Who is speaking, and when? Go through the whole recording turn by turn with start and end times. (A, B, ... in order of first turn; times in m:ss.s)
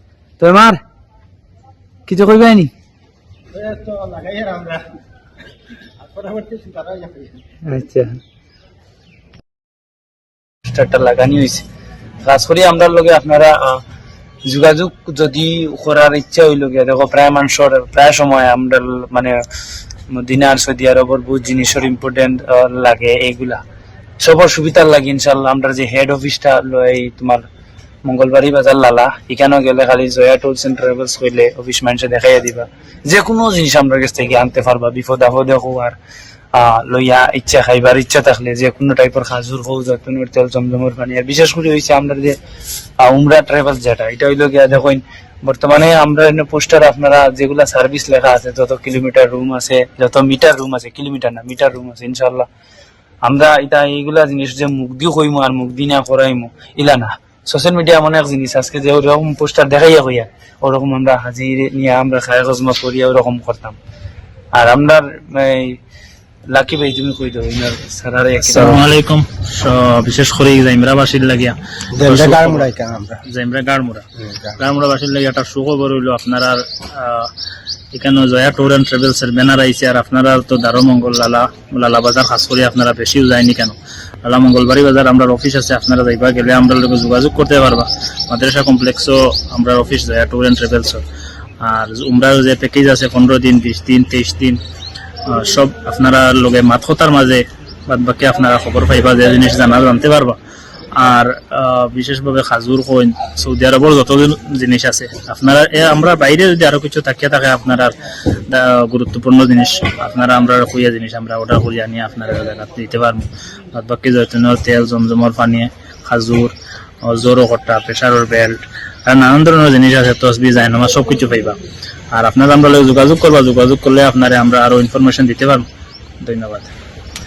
0:00.4-0:00.8 A
0:02.0-0:02.7 A
0:03.5-0:04.8 B
0:06.0-0:07.4 B
0:07.6-0:08.2 A
0:10.6-0:11.6 A
0:12.2-0:13.8 A
0:14.4-0:19.4 A
0:20.1-0:23.6 A
0:24.2-0:27.5 A
0:28.0-0:36.0 A
0:36.5-0:42.4 A
0:43.0-0:52.5 A
0:53.2-1:03.8 A
1:04.5-1:05.8 A
1:06.5-1:08.9 A
1:08.4-1:12.7 C
1:11.9-1:13.2 B
1:13.2-1:14.0 C
1:14.6-1:17.3 C
1:17.9-1:31.0 C
1:31.6-1:34.6 C
1:35.2-1:40.4 C
1:40.9-1:47.9 C
1:48.5-2:01.6 C
2:02.1-2:05.6 C
2:06.2-2:06.7 C